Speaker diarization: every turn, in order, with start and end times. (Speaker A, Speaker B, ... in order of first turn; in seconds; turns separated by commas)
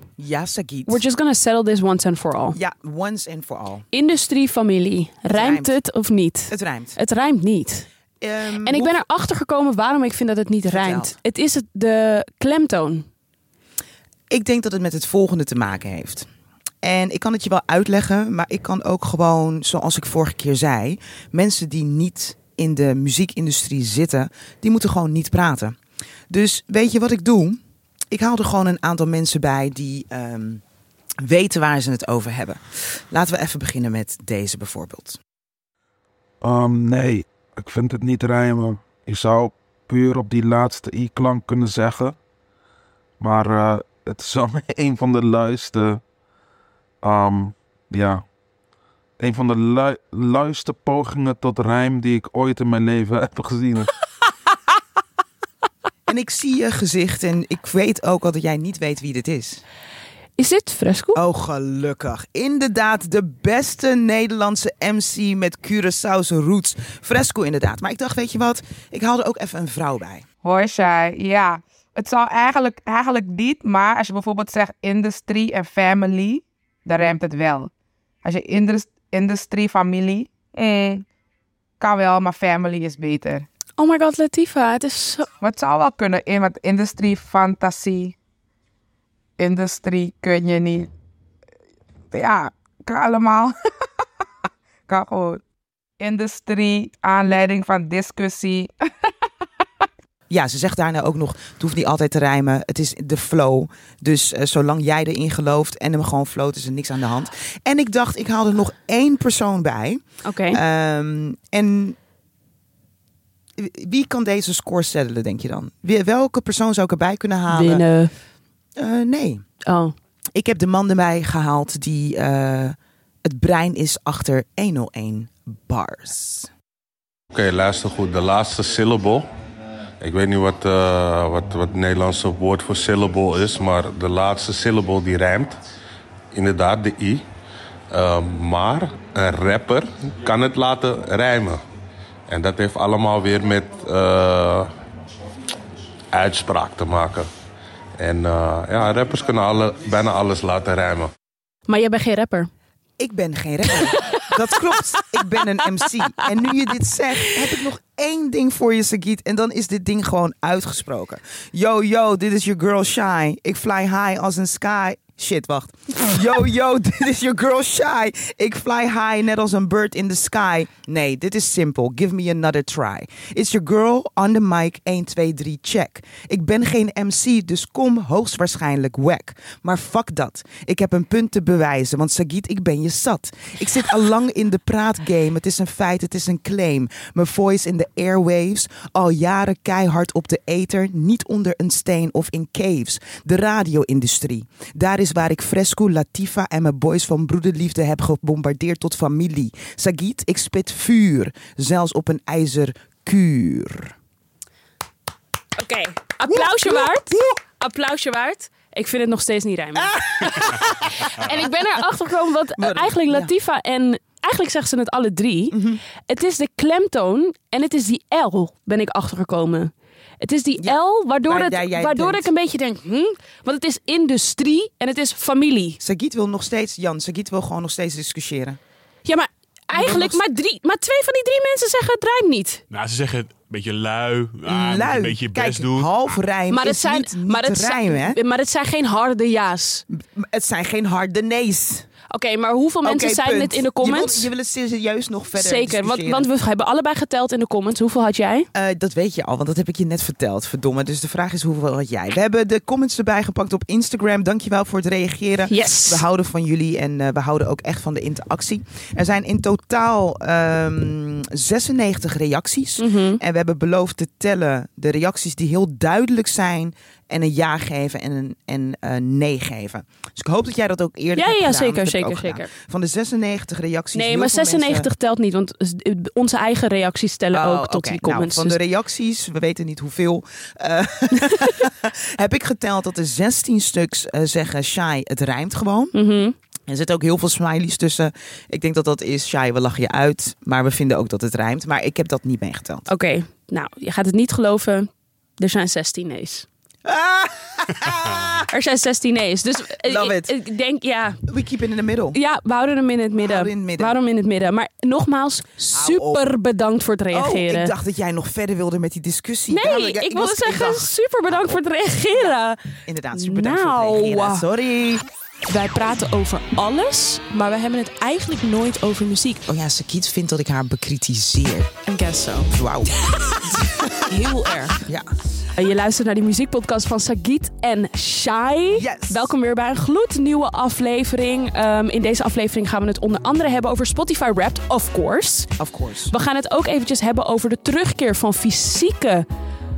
Speaker A: 0.2-1.0, Speaker B: 0.9-2.6, Speaker A: 2.5-3.9, Speaker B: 3.9-7.9, Speaker A: 5.3-5.8, Speaker A: 6.5-7.0, Speaker A: 8.2-9.1, Speaker B: 8.6-13.1, Speaker A: 10.7-11.2, Speaker A: 14.3-16.3, Speaker A: 16.8-25.8, Speaker A: 26.3-30.6, Speaker A: 31.2-35.2, Speaker C: 36.4-42.2, Speaker C: 43.2-46.0, Speaker C: 47.0-48.2, Speaker C: 49.2-53.9, Speaker A: 56.1-59.6, Speaker B: 60.4-61.2, Speaker A: 61.1-70.2, Speaker D: 70.4-77.7, Speaker D: 78.2-81.1, Speaker D: 81.8-83.5, Speaker B: 83.8-85.3, Speaker D: 85.4-88.2, Speaker D: 89.4-90.9, Speaker D: 92.1-93.5, Speaker D: 94.9-95.4, Speaker D: 96.0-98.7, Speaker A: 100.3-112.0, Speaker B: 110.2-110.6, Speaker A: 113.6-117.8, Speaker B: 117.5-118.1, Speaker A: 118.8-119.4, Speaker B: 119.7-120.0, Speaker A: 120.3-126.5, Speaker E: 127.3-129.3, Speaker E: 130.0-135.6, Speaker E: 136.3-137.2, Speaker E: 137.9-141.6, Speaker E: 142.3-144.7, Speaker E: 146.1-147.3, Speaker E: 148.0-151.1, Speaker B: 151.7-152.5, Speaker A: 153.0-203.9, Speaker B: 153.8-155.6, Speaker B: 156.2-156.8, Speaker B: 205.6-225.8, Speaker A: 206.3-207.3, Speaker A: 209.8-211.5, Speaker A: 212.6-213.3, Speaker A: 215.5-215.8, Speaker A: 220.6-222.3, Speaker A: 225.8-228.6, Speaker B: 229.1-232.6, Speaker A: 229.7-230.2, Speaker F: 232.7-235.9, Speaker A: 234.4-238.2, Speaker B: 236.5-239.8, Speaker A: 239.9-241.9, Speaker B: 242.1-244.3, Speaker A: 242.8-246.3, Speaker B: 245.4-248.5, Speaker A: 248.5-274.9, Speaker B: 255.5-256.0, Speaker B: 262.8-263.2, Speaker B: 271.2-272.5, Speaker B: 273.9-278.6, Speaker A: 277.3-285.9, Speaker B: 285.9-286.4, Speaker A: 286.7-292.9, Speaker B: 292.9-296.5, Speaker A: 296.9-298.5, Speaker B: 298.5-301.2, Speaker A: 299.8-300.4, Speaker A: 301.3-302.2, Speaker B: 302.1-307.7, Speaker A: 303.2-304.0, Speaker A: 305.7-306.3, Speaker A: 307.1-311.6, Speaker B: 309.5-312.6, Speaker A: 312.1-315.1, Speaker B: 313.1-314.5, Speaker B: 315.5-319.5, Speaker A: 319.5-321.8, Speaker B: 321.9-322.5, Speaker A: 322.5-324.1, Speaker B: 323.1-324.8, Speaker A: 324.7-325.1, Speaker B: 325.6-335.5, Speaker A: 328.7-329.3, Speaker A: 335.6-336.1, Speaker B: 336.1-339.3